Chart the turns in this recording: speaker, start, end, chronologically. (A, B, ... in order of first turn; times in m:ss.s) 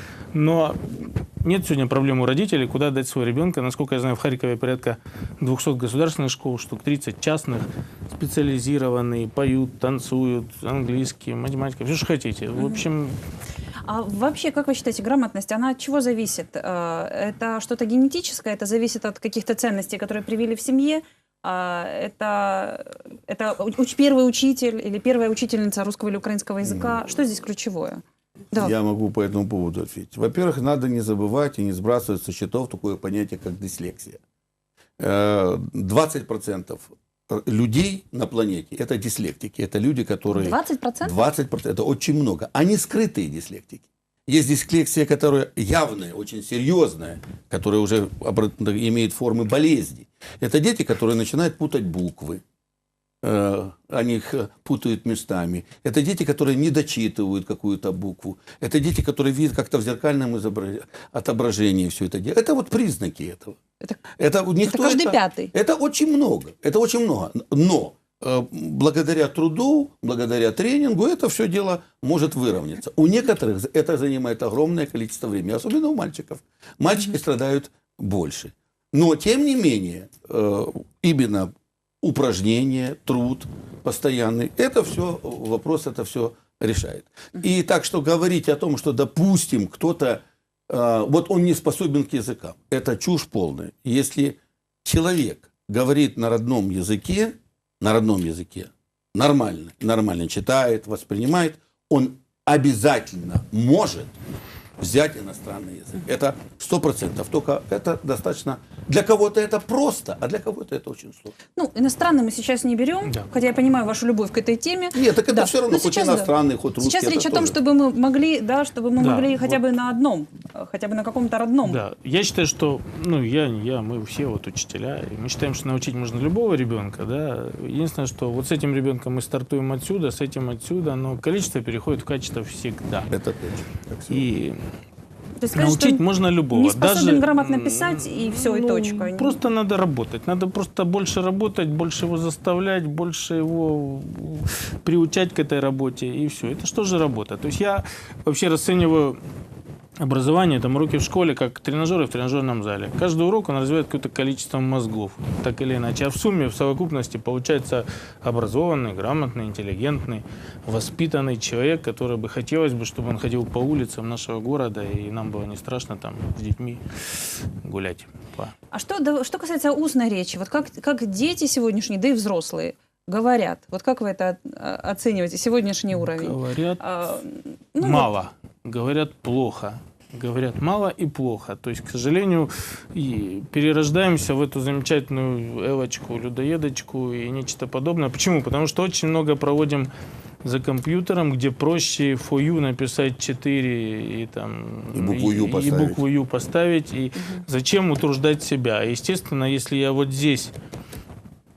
0:00.3-0:13.2 A
0:12.5-0:12.8 B
0:13.8-0:28.7 B
0:26.6-0:26.9 C
0:28.5-0:34.2 C
0:35.0-0:52.4 C
0:40.3-0:41.2 B
0:53.2-1:03.6 C
1:04.2-1:44.1 C
1:04.6-1:05.5 B
1:44.8-1:51.3 C
1:51.5-2:01.8 B
1:53.0-1:53.3 A
1:54.9-1:57.6 C
1:59.0-1:59.6 A
2:01.6-2:13.1 A
2:13.1-2:14.3 C
2:14.1-2:14.6 A
2:15.4-2:19.4 B
2:15.5-2:29.2 A
2:30.0-2:46.8 A
2:47.6-2:48.5 A
2:48.7-2:58.1 B
2:55.9-2:56.8 A
2:57.8-3:09.9 A
3:10.4-3:20.5 A
3:14.9-3:16.0 C